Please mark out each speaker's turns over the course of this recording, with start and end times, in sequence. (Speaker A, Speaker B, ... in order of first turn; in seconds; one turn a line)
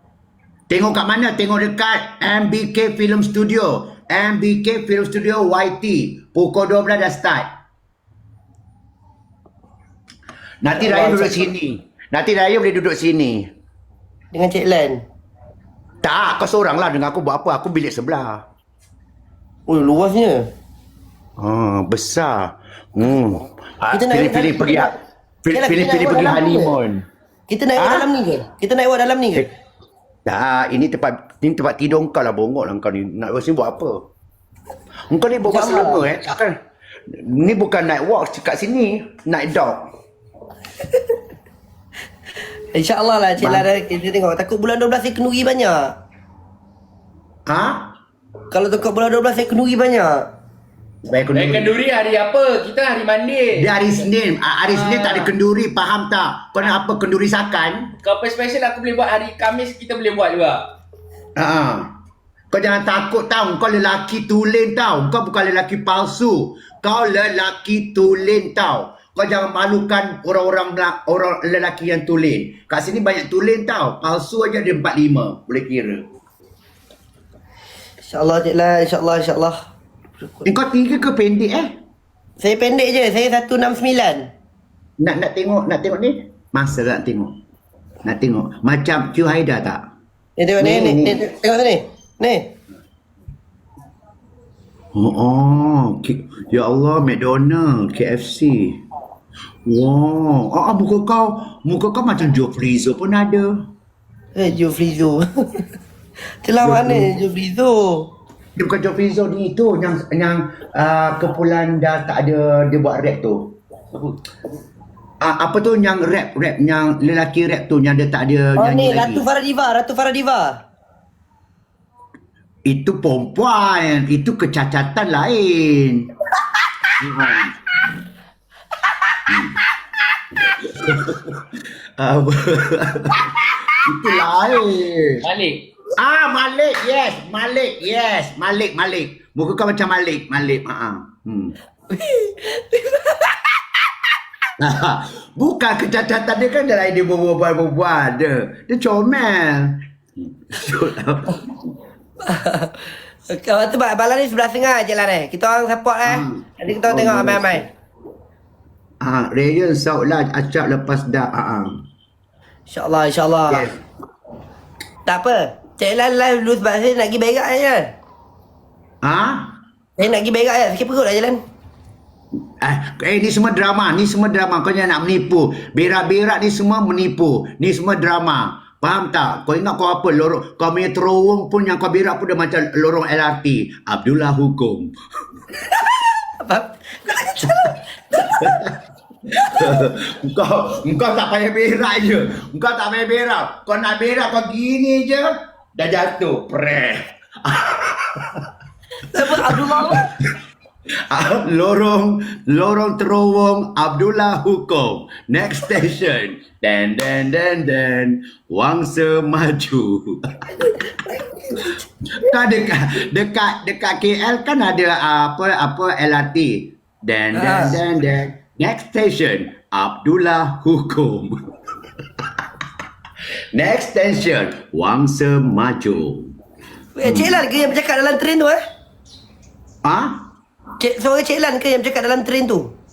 Speaker A: 0.7-7.5
Speaker A: 10.6-13.4
Speaker B: 10.7-11.5
Speaker B: 14.3-15.0
Speaker A: 16.0-18.4
Speaker B: 19.7-20.5
Speaker A: 21.4-24.9
Speaker B: 23.9-24.9
Speaker A: 25.4-27.0
Speaker B: 25.5-26.7
Speaker B: 27.5-29.5
Speaker A: 27.8-28.1
Speaker A: 30.2-34.0
Speaker A: 35.1-36.5
Speaker B: 35.4-36.0
Speaker A: 37.1-39.8
Speaker B: 42.7-45.9
Speaker A: 43.4-43.6
Speaker A: 47.5-47.9
Speaker B: 48.5-50.3
Speaker A: 51.0-51.7
Speaker C: 51.3-54.0
Speaker A: 53.5-57.9
Speaker C: 54.6-55.3
Speaker C: 58.0-60.6
Speaker A: 61.4-61.9
Speaker A: 62.5-76.0
Speaker B: 78.0-79.6
Speaker A: 80.4-81.7
Speaker B: 82.4-84.3
Speaker A: 85.0-87.3
Speaker A: 88.0-89.8
Speaker B: 90.4-92.5
Speaker A: 90.6-91.2
Speaker A: 94.9-98.8
Speaker A: 99.7-103.6
Speaker B: 104.3-105.7
Speaker B: 106.4-108.1
Speaker A: 106.6-107.1
Speaker A: 108.5-113.5
Speaker A: 115.2-119.2
Speaker B: 118.6-120.6
Speaker A: 122.6-126.1
Speaker A: 127.0-127.5
Speaker A: 129.3-129.6
Speaker A: 130.6-131.4
Speaker A: 132.0-135.2
Speaker C: 135.2-135.6
Speaker A: 135.9-141.5
Speaker B: 141.9-143.4
Speaker A: 144.6-151.5
Speaker B: 152.2-157.7
Speaker A: 156.0-157.7
Speaker A: 159.0-161.8
Speaker B: 162.7-163.7
Speaker A: 163.5-163.8
Speaker B: 165.1-167.9
Speaker A: 169.0-169.5
Speaker B: 170.0-171.4
Speaker A: 172.6-184.9
Speaker B: 186.4-188.6
Speaker A: 189.5-198.4
Speaker B: 199.0-200.1
Speaker A: 199.4-200.0
Speaker A: 201.1-210.4
Speaker B: 211.1-211.8
Speaker A: 212.2-221.4
Speaker B: 217.3-217.8
Speaker A: 223.5-226.3
Speaker B: 227.0-228.6
Speaker A: 227.0-227.4
Speaker A: 229.8-230.2
Speaker B: 230.8-232.7